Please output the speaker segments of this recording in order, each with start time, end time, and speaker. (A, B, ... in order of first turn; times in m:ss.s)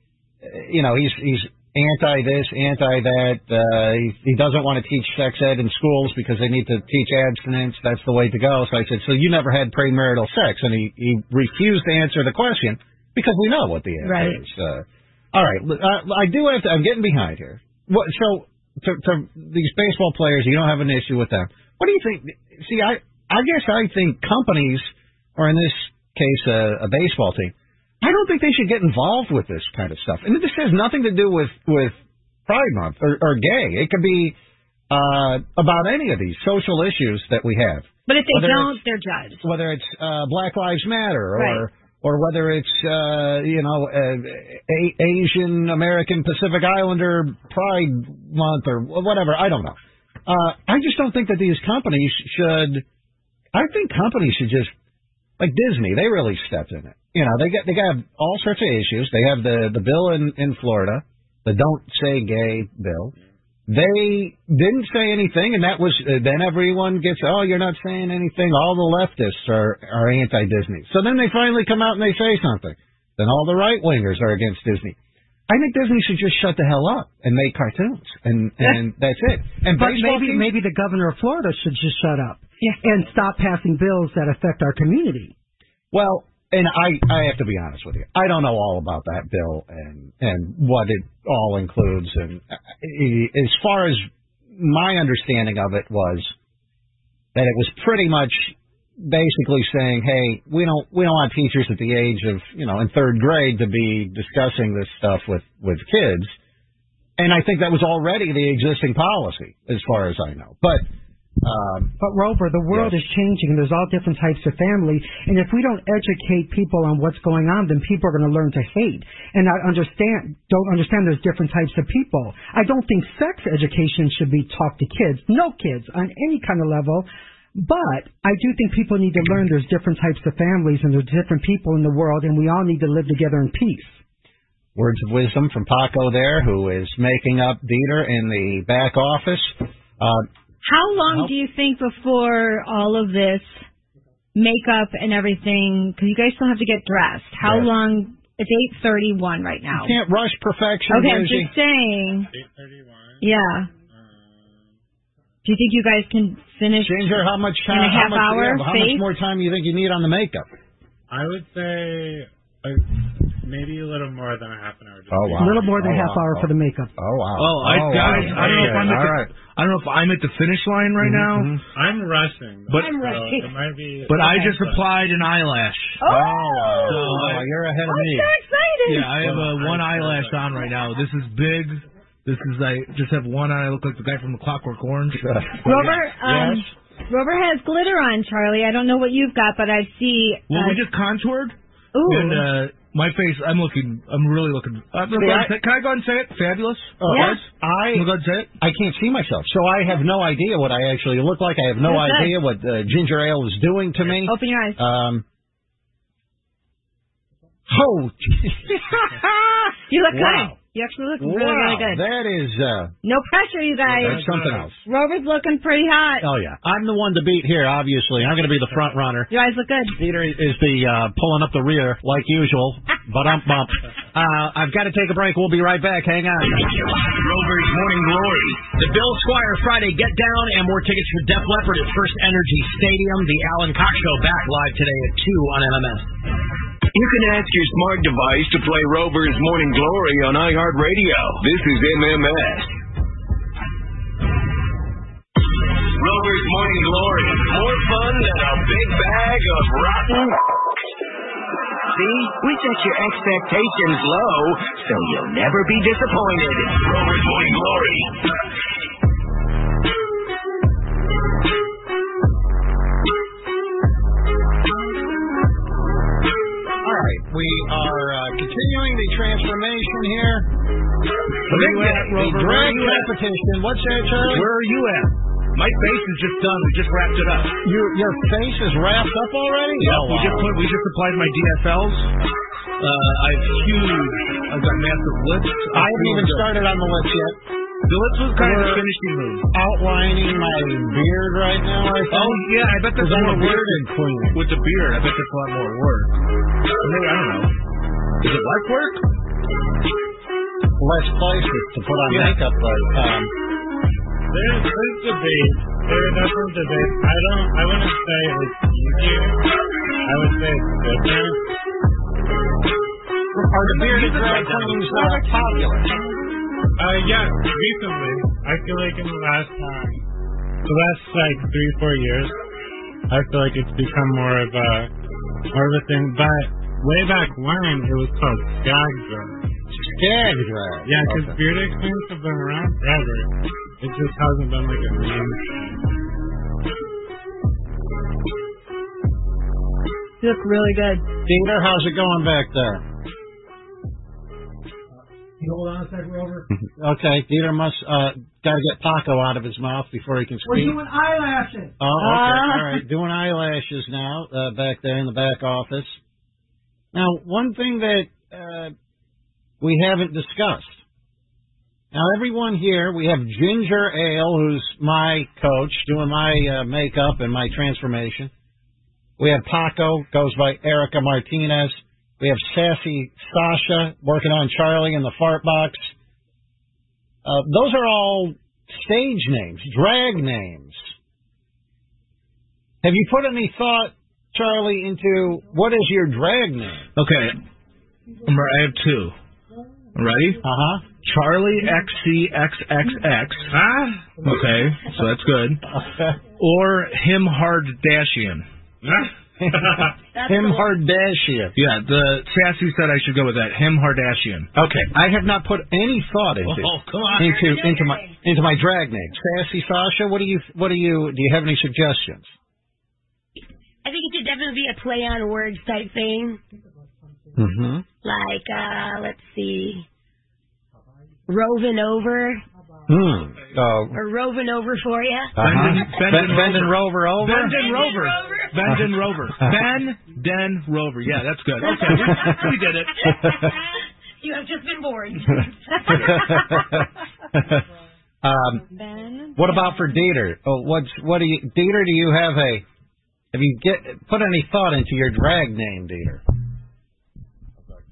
0:00.4-0:34.4 A
0:14.1-0:14.4 B
0:34.9-0:38.8 A
0:38.1-0:39.4 C
0:39.4-0:52.8 A
0:41.3-0:41.6 C
0:53.5-0:54.7 A
0:55.4-1:03.1 A
1:03.7-1:15.0 A
1:15.5-1:20.5 A
1:19.7-1:25.3 D
1:25.9-1:36.3 A
1:37.3-1:46.3 A
1:47.2-1:50.8 A
1:51.4-1:51.9 A
1:52.0-2:14.0 D
1:52.7-1:53.0 A
2:14.8-2:20.3 A
2:20.6-2:23.6 C
2:21.0-2:21.3 A
2:24.3-2:30.0 C
2:27.4-2:27.7 A
2:29.7-2:31.5 A
2:30.9-2:32.3 C
2:32.3-2:33.2 E
2:33.2-2:33.7 C
2:33.9-2:34.6 E
2:35.4-2:39.1 C
2:36.8-2:40.5 A
2:41.1-2:45.7 E
2:45.1-2:49.3 A
2:45.4-2:46.9 D
2:47.4-2:51.6 F
2:47.9-2:49.0 E
2:51.0-2:51.6 A
2:51.7-2:54.9 E
2:52.7-2:53.5 B
2:54.1-2:56.0 F
2:56.0-2:57.3 C
2:56.0-2:58.3 A
2:56.8-2:57.5 F
2:57.8-2:59.2 C
2:58.8-3:06.0 F
2:59.3-3:00.5 E
3:05.2-3:06.7 A
3:05.6-3:10.8 C
3:10.5-3:18.5 F
3:11.9-3:12.5 C
3:15.1-3:15.5 A
3:17.0-3:18.1 A
3:17.1-3:17.4 C
3:18.6-3:25.2 A
3:21.8-3:22.4 C
3:24.2-3:24.8 C
3:27.7-3:30.6 A
3:29.9-3:32.0 C
3:31.2-3:32.9 A
3:33.0-3:34.2 C
3:33.9-3:34.8 A
3:34.0-3:34.7 E
3:34.8-3:36.3 C
3:36.2-3:39.3 A
3:39.3-3:40.0 C
3:39.9-3:46.8 A
3:47.1-3:48.7 G
3:48.7-3:56.1 H
3:56.9-4:02.7 G
4:05.9-4:10.4 G
4:11.9-4:18.2 G
4:26.8-4:30.5 A
4:31.4-4:34.5 A
4:31.5-4:33.1 F
4:34.2-4:37.6 F
4:37.6-4:40.5 A
4:39.8-4:42.1 F
4:42.8-4:46.5 F
4:45.7-4:47.4 A
4:47.9-4:49.5 F
4:48.3-4:48.9 A
4:49.5-4:54.4 A
4:52.1-4:56.2 F
4:56.8-4:57.5 F
4:58.2-4:59.0 F
5:00.8-5:03.3 A
5:02.1-5:02.4 F
5:04.3-5:09.5 E
5:10.0-5:11.4 E
5:13.3-5:15.9 A
5:13.6-5:15.4 F
5:16.8-5:20.0 E
5:20.6-5:22.4 E
5:23.1-5:24.9 E
5:25.5-5:29.4 E
5:29.8-5:31.4 A
5:30.8-5:35.8 E
5:40.2-5:41.1 C
5:41.2-5:42.8 A
5:45.4-5:46.5 D
5:46.6-5:50.8 A
5:50.4-5:51.7 D
5:51.8-5:56.0 A
5:52.0-5:52.8 C
5:56.9-5:58.7 A
5:59.6-6:00.8 A
6:01.9-6:08.3 A
6:09.2-6:15.9 A
6:17.2-6:20.9 A
6:22.8-6:26.9 A
6:27.0-6:27.4 F
6:28.2-6:29.1 F
6:29.9-6:30.4 F
6:30.4-6:30.8 A
6:31.0-6:33.5 F
6:33.5-6:34.2 E
6:34.2-6:35.6 F
6:35.8-6:36.1 A
6:36.4-6:38.4 F
6:38.8-6:39.8 E
6:39.4-6:41.5 A
6:40.1-6:40.7 B
6:41.6-6:44.5 F
6:44.5-6:52.3 A
6:46.4-6:47.4 F
6:47.1-6:48.2 B
6:53.8-6:56.4 B
6:57.3-6:57.8 A
6:58.0-6:59.8 B
7:01.3-7:02.4 B
7:02.9-7:04.0 A
7:03.9-7:05.4 B
7:05.4-7:07.6 A
7:05.4-7:13.0 F
7:07.4-7:08.7 B
7:11.6-7:12.4 B
7:13.0-7:16.1 B
7:15.9-7:16.8 A
7:18.2-7:18.6 A
7:18.7-7:19.7 C
7:19.4-7:22.6 A
7:23.3-7:26.2 A